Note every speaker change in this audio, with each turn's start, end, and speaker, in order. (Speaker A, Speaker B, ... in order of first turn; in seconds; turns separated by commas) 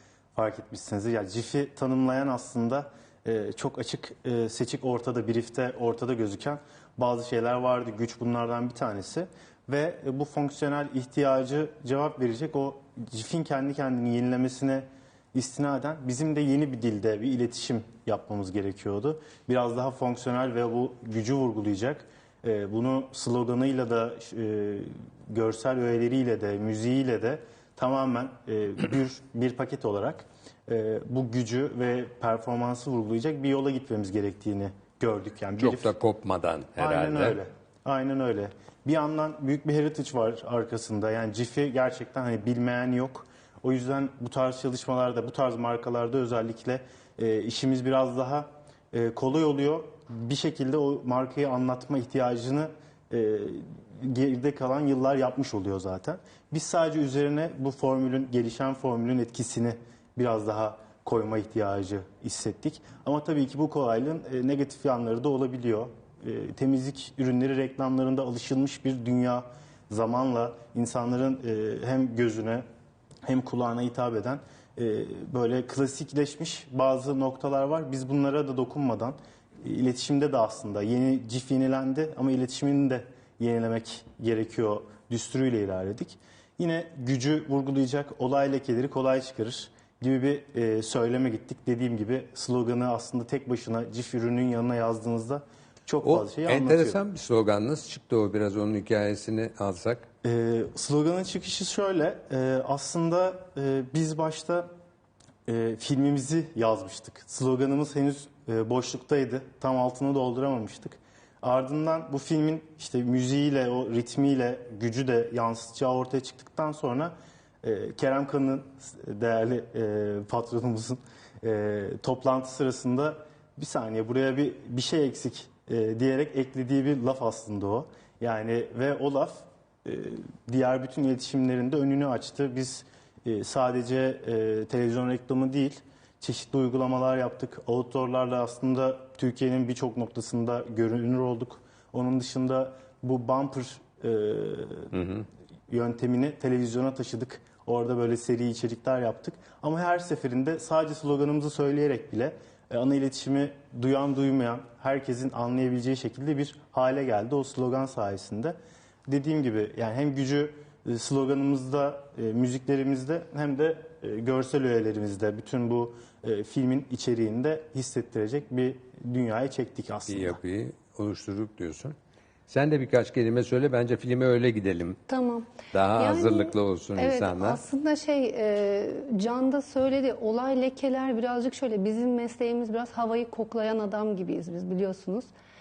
Speaker A: 0.3-35.9, Speaker B: 35.6-37.4, Speaker A: 36.8-72.6, Speaker A: 73.2-97.0, Speaker B: 96.0-100.1, Speaker A: 100.2-104.7, Speaker A: 105.5-144.9, Speaker B: 144.9-145.2, Speaker A: 145.7-158.6, Speaker A: 159.1-170.4, Speaker B: 170.1-171.9, Speaker B: 172.5-175.0, Speaker C: 175.1-185.3, Speaker B: 175.7-177.6